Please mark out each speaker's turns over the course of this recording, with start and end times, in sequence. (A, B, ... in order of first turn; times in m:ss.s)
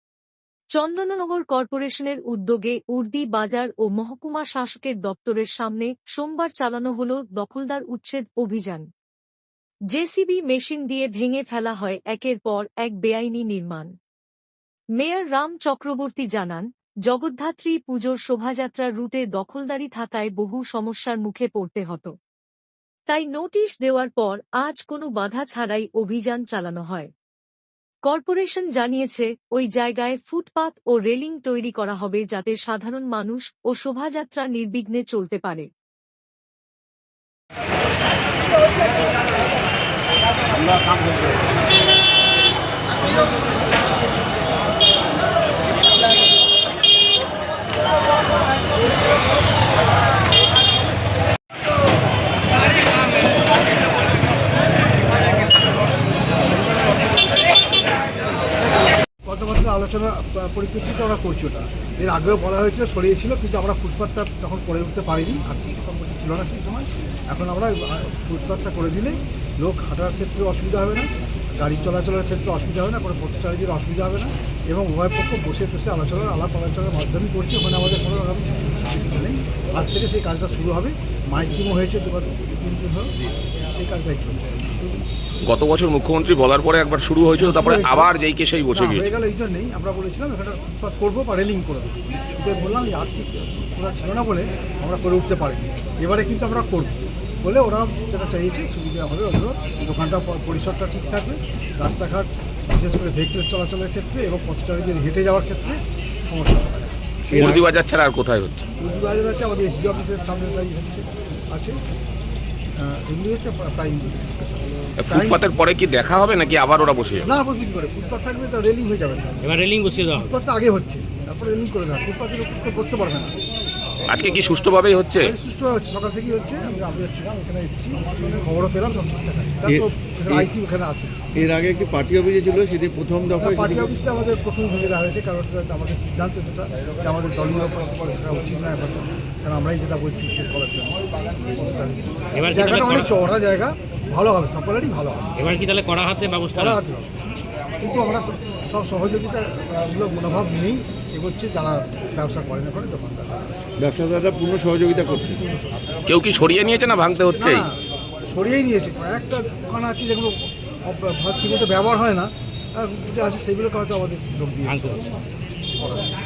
0:00.7-0:08.9 A
0:09.9-0:13.9 A
0:15.0-0:22.1 A
0:23.1-0:27.1 A
0:28.0-0:35.7 A
0:59.2-1:23.2 B
1:23.7-1:25.0 B
1:25.4-1:29.1 C
1:27.4-1:28.1 B
1:28.7-1:47.4 B
1:47.3-1:48.7 C
1:48.8-1:51.8 B
1:52.8-1:55.5 B
1:55.0-1:57.3 C
1:57.2-1:59.5 B
1:59.4-2:00.3 D
2:00.1-2:03.3 B
2:04.1-2:05.3 C
2:05.2-2:11.2 B
2:09.7-2:10.4 E
2:11.3-2:13.9 E
2:13.4-2:25.3 B
2:22.4-2:23.1 D
2:25.4-2:26.8 D
2:26.6-2:27.2 B
2:27.8-2:33.6 B
2:33.8-2:35.4 E
2:35.3-2:35.8 B
2:36.1-2:37.7 C
2:37.4-2:37.8 B
2:38.3-2:44.9 B
2:44.7-2:45.0 D
2:45.8-2:46.1 B